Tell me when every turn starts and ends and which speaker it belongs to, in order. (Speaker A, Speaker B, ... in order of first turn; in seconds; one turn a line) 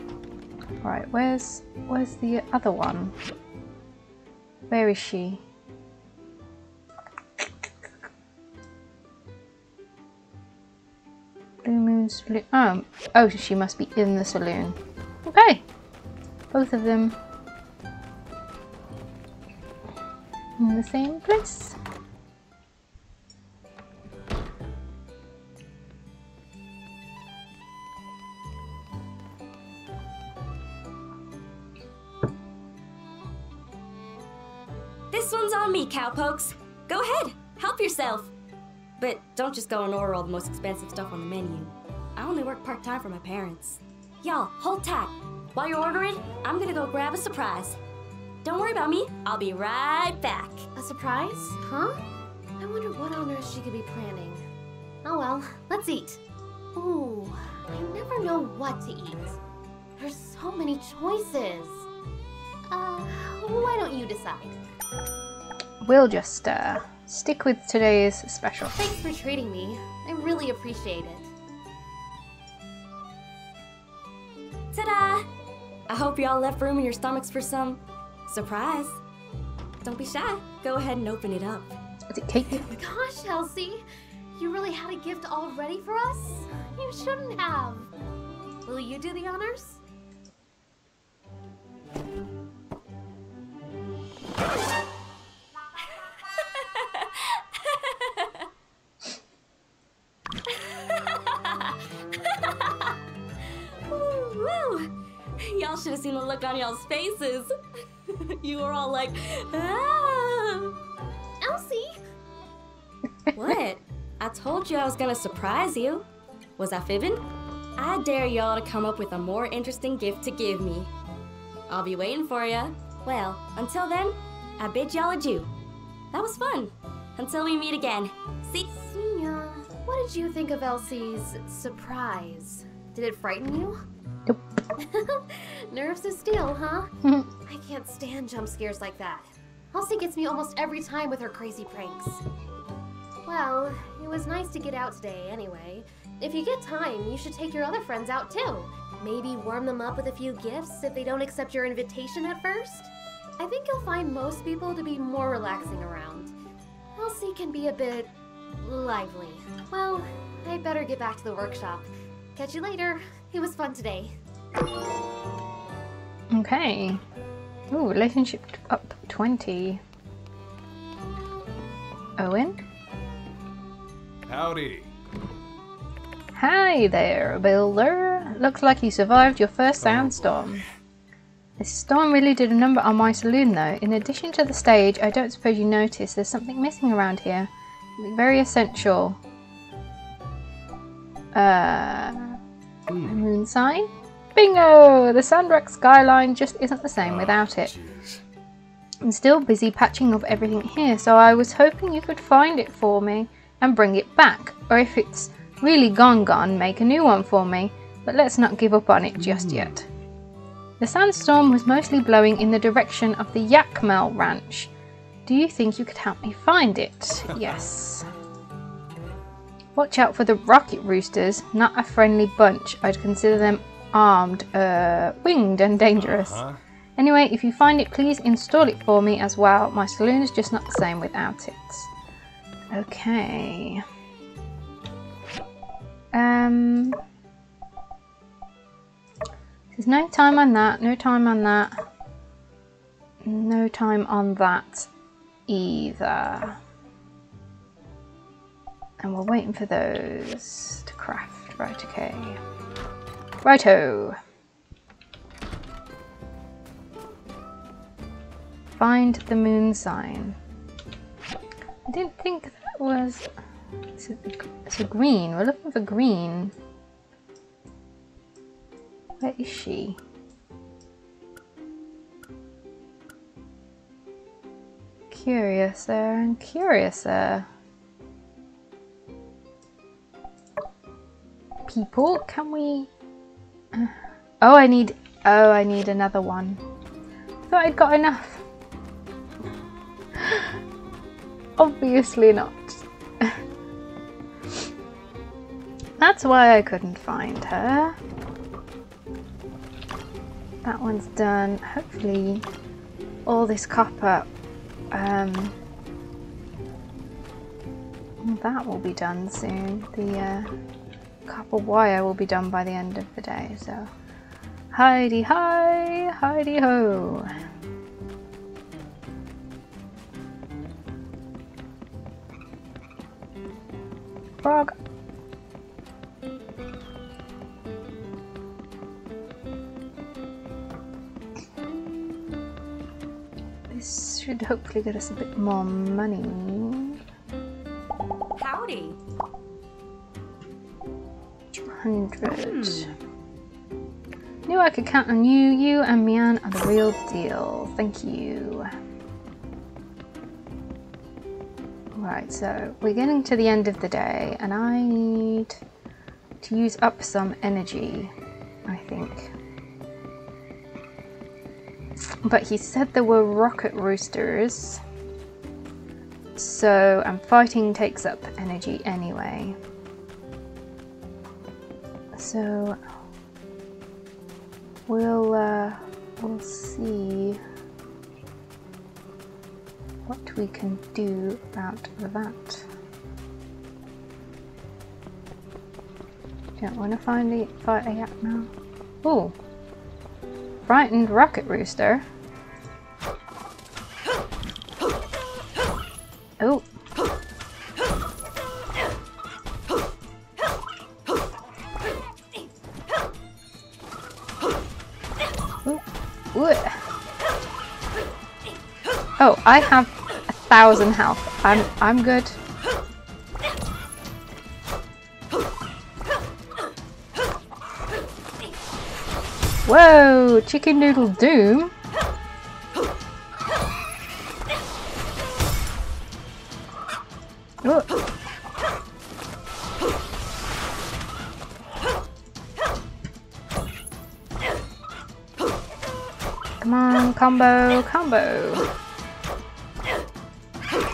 Speaker A: 0.8-3.2
Speaker A: 4.7-5.4
Speaker A: 11.6-15.6
Speaker A: 16.5-17.2
Speaker A: 20.6-21.8
Speaker B: 35.1-38.3
Speaker B: 39.0-47.8
Speaker B: 48.4-50.7
Speaker C: 50.8-51.9
Speaker C: 52.6-54.4
Speaker C: 55.0-56.2
Speaker C: 56.7-59.4
Speaker C: 60.0-61.9
Speaker C: 62.7-64.6
Speaker A: 65.8-68.8
Speaker C: 68.8-71.3
Speaker B: 74.7-75.3
Speaker B: 75.9-79.0
Speaker B: 79.8-81.8
Speaker A: 82.1-82.7
Speaker C: 82.6-83.8
Speaker C: 84.4-87.9
Speaker C: 88.7-89.8
Speaker B: 96.3-98.5
Speaker B: 100.5-102.9
Speaker B: 103.9-107.5
Speaker B: 108.1-110.8
Speaker C: 111.4-112.0
Speaker B: 113.3-116.1
Speaker B: 116.6-117.2
Speaker B: 117.8-120.9
Speaker B: 121.7-125.5
Speaker B: 126.1-128.9
Speaker C: 128.9-133.8
Speaker C: 134.8-136.9
Speaker A: 137.0-137.3
Speaker C: 137.5-142.2
Speaker C: 143.3-156.3
Speaker C: 157.0-164.2
Speaker A: 166.3-167.0
Speaker A: 167.7-169.8
Speaker A: 172.2-172.6
Speaker D: 174.3-174.9
Speaker A: 176.3-180.6
Speaker D: 179.9-180.2
Speaker A: 181.6-189.2
Speaker A: 191.3-192.4
Speaker A: 193.0-197.7
Speaker D: 197.0-198.2
Speaker A: 199.0-209.9
Speaker A: 210.8-214.7
Speaker A: 215.3-218.1
Speaker A: 219.8-226.4
Speaker D: 226.0-226.6
Speaker A: 227.0-231.9
Speaker A: 232.7-233.8
Speaker A: 236.1-237.0
Speaker A: 239.7-241.8
Speaker A: 243.2-244.9
Speaker A: 245.5-246.6
Speaker A: 249.0-252.4
Speaker A: 253.4-254.2
Speaker A: 258.7-260.4
Speaker A: 261.9-263.2
Speaker A: 264.0-266.5
Speaker A: 269.2-270.0
Speaker A: 275.1-277.5
Speaker A: 281.7-282.9
Speaker A: 283.7-286.6
Speaker A: 287.5-288.4
Speaker A: 290.2-290.6
Speaker A: 291.6-293.4
Speaker A: 296.0-298.0
Speaker A: 300.6-302.5
Speaker A: 303.3-304.3
Speaker A: 304.9-305.6
Speaker A: 308.2-310.5
Speaker A: 311.3-313.9
Speaker A: 314.7-317.3
Speaker A: 324.4-324.7
Speaker A: 333.7-337.0
Speaker B: 338.4-339.0
Speaker A: 341.5-342.9
Speaker A: 344.5-348.7
Speaker A: 351.9-355.6
Speaker A: 356.4-358.1
Speaker A: 358.7-359.3
Speaker A: 362.2-364.8
Speaker A: 366.4-369.6
Speaker A: 372.1-372.8
Speaker A: 374.9-377.4
Speaker A: 380.1-382.7
Speaker A: 386.6-388.5
Speaker A: 389.0-389.4
Speaker A: 390.7-392.1
Speaker A: 396.4-396.6
Speaker A: 405.6-406.9
Speaker A: 409.2-412.4
Speaker A: 419.7-421.7
Speaker A: 427.6-427.9
Speaker A: 436.6-438.7